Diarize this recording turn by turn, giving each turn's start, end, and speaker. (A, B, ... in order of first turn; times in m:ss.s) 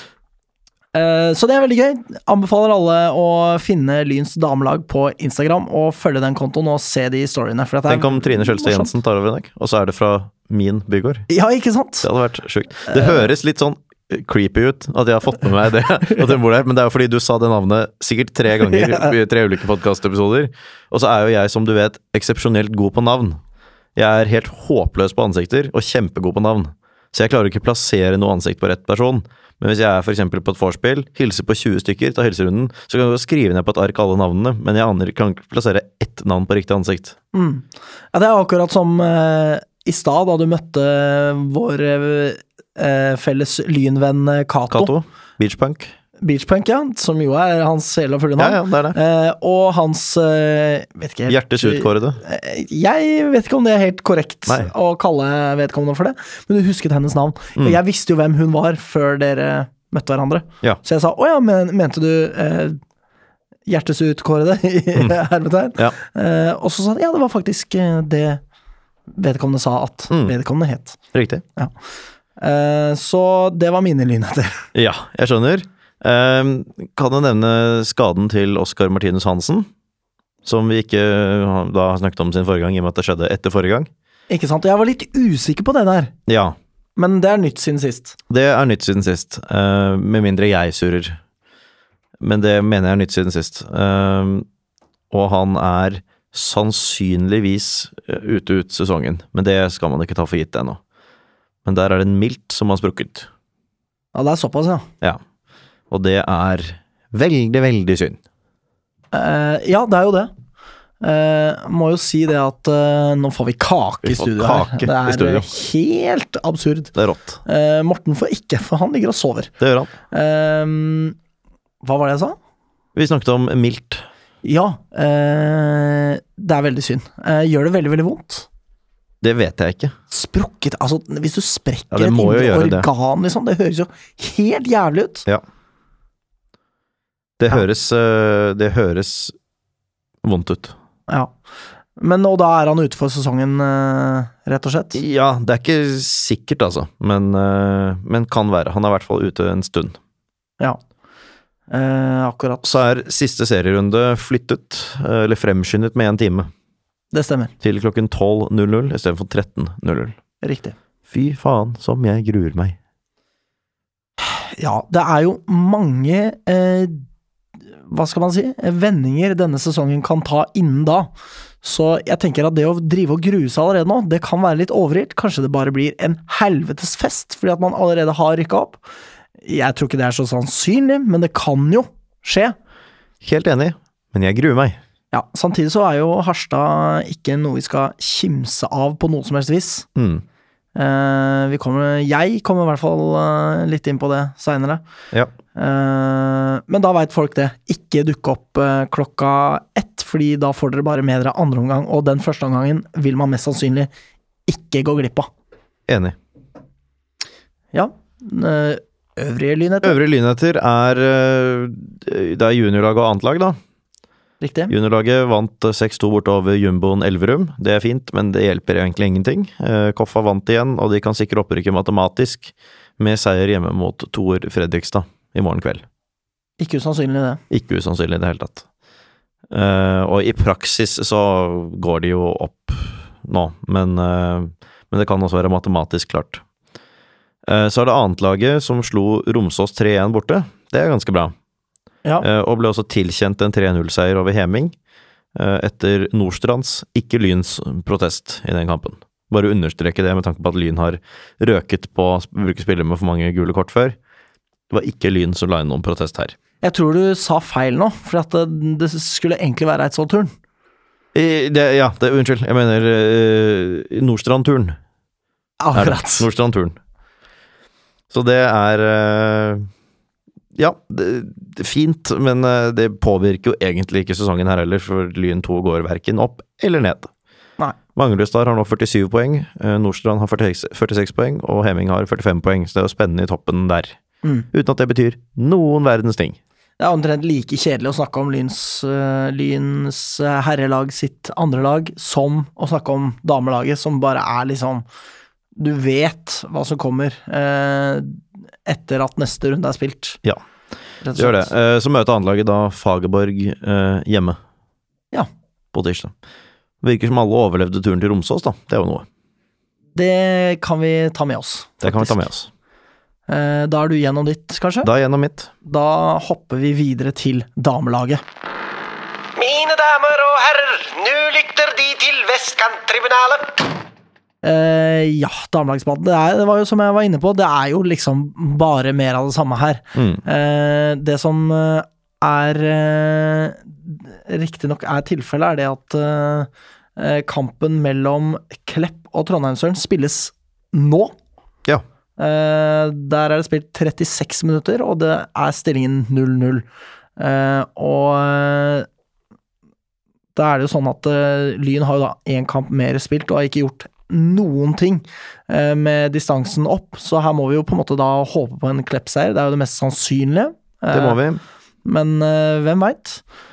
0:00.9-0:08.9 A
0:07.9-0:11.3 B
0:11.3-0:12.1 A
0:12.0-0:23.4 B
0:12.9-0:13.2 A
0:18.6-0:19.1 A
0:24.0-0:37.2 B
0:37.3-0:44.9 A
0:44.7-0:45.9 B
0:46.2-1:02.8 A
0:48.4-0:49.0 B
0:51.3-0:52.2 B
1:03.7-1:08.4 A
1:09.1-1:11.0 A
1:11.1-1:11.4 B
1:12.4-1:14.6 A
1:14.8-1:19.7 B
1:20.4-1:23.9 B
1:24.3-1:26.1 A
1:26.3-1:26.6 B
1:27.0-1:28.2 A
1:28.3-1:31.2 B
1:32.2-1:34.5 B
1:35.1-1:40.8 B
1:41.6-1:43.3 B
1:44.1-1:44.9 A
1:45.9-1:48.2 B
1:49.1-1:50.3 A
1:51.0-1:56.9 A
1:54.0-1:55.5 B
1:57.0-1:57.4 B
1:57.4-1:59.5 A
1:59.6-1:59.9 B
2:00.1-2:01.2 A
2:01.8-2:02.4 A
2:03.0-2:04.1 B
2:04.4-2:08.5 A
2:09.2-2:10.0 B
2:10.1-2:15.3 A
2:11.9-2:12.9 B
2:17.4-2:19.4 B
2:20.2-2:20.8 B
2:21.1-2:21.3 A
2:22.0-2:25.0 A
2:24.9-2:30.0 B
2:31.7-2:32.8 A
2:32.6-2:36.5 B
2:37.1-2:37.5 A
2:37.6-2:40.2 B
2:40.4-2:40.8 A
2:41.1-2:42.8 B
2:44.2-2:47.0 A
2:47.9-2:51.1 A
2:51.6-2:58.8 A
2:59.4-3:02.6 A
3:03.2-3:04.8 B
3:05.1-3:09.9 A
3:10.0-3:10.2 B
3:10.8-3:14.8 A
3:15.6-3:23.9 A
3:24.5-3:25.3 A
3:25.9-3:26.2 B
3:27.7-3:30.0 A
3:29.8-3:33.6 B
3:34.4-3:34.7 A
3:34.7-3:45.8 B
3:46.6-3:47.4 A
3:47.5-3:48.6 B
3:49.5-3:56.4 B
3:57.5-4:01.3 B
4:02.2-4:04.8 B
4:05.4-4:14.0 B
4:14.7-4:16.4 B
4:16.6-4:20.3 A
4:21.1-4:24.8 B
4:25.6-4:26.3 A
4:25.7-4:26.8 B
4:28.1-4:29.7 B
4:30.6-4:37.1 B
4:38.0-4:44.0 B
4:44.2-4:44.5 A
4:44.5-4:46.4 B
4:46.8-4:54.8 A
4:55.6-5:00.2 A
5:01.0-5:01.5 A
5:01.2-5:04.4 B
5:05.7-5:06.1 B
5:06.8-5:09.1 B
5:10.0-5:12.2 A
5:11.8-5:12.5 B
5:13.3-5:14.9 A
5:14.8-5:15.5 B
5:15.6-5:18.2 A
5:19.4-5:23.6 C
5:24.4-5:41.2 A
5:30.0-5:30.2 B
5:42.2-5:46.7 A
5:47.2-5:48.9 A
5:50.4-6:01.2 A
6:00.9-6:01.4 B
6:01.8-6:03.2 A